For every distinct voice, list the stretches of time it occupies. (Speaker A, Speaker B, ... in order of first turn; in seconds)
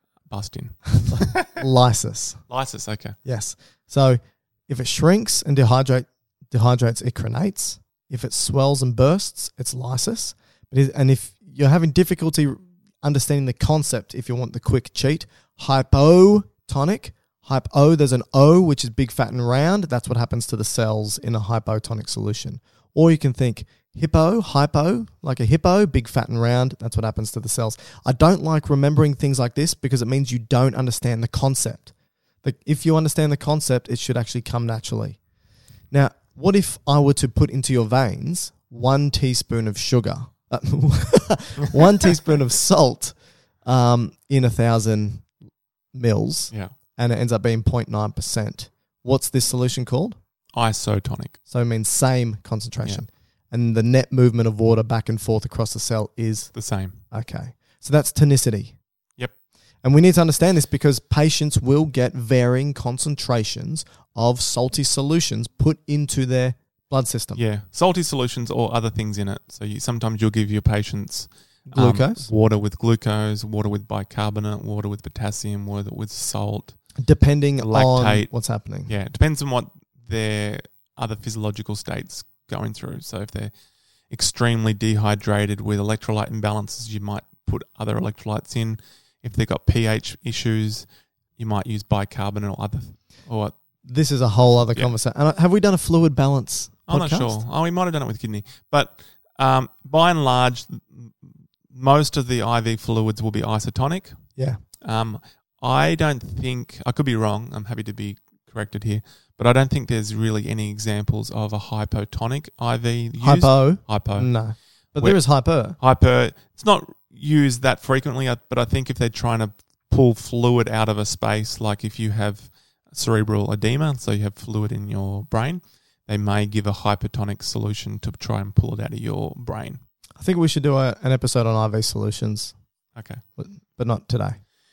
Speaker A: 0.3-1.6, 2.5-3.2, 50.5-51.4, 56.5-57.0, 67.3-76.8, 77.6-78.3, 78.8-83.5, 84.1-93.5, 94.4-94.9, 96.9-104.2, 104.8-114.4, 115.0-129.8, 132.9-133.2
Speaker B: 1.1-2.4, 3.2-31.9, 32.4-35.2, 35.9-45.3, 45.9-50.2, 51.5-56.5, 57.1-58.8, 59.8-67.4, 71.7-72.3, 77.0-78.9, 93.8-97.4, 113.2-115.8, 130.2-132.5, 133.4-134.4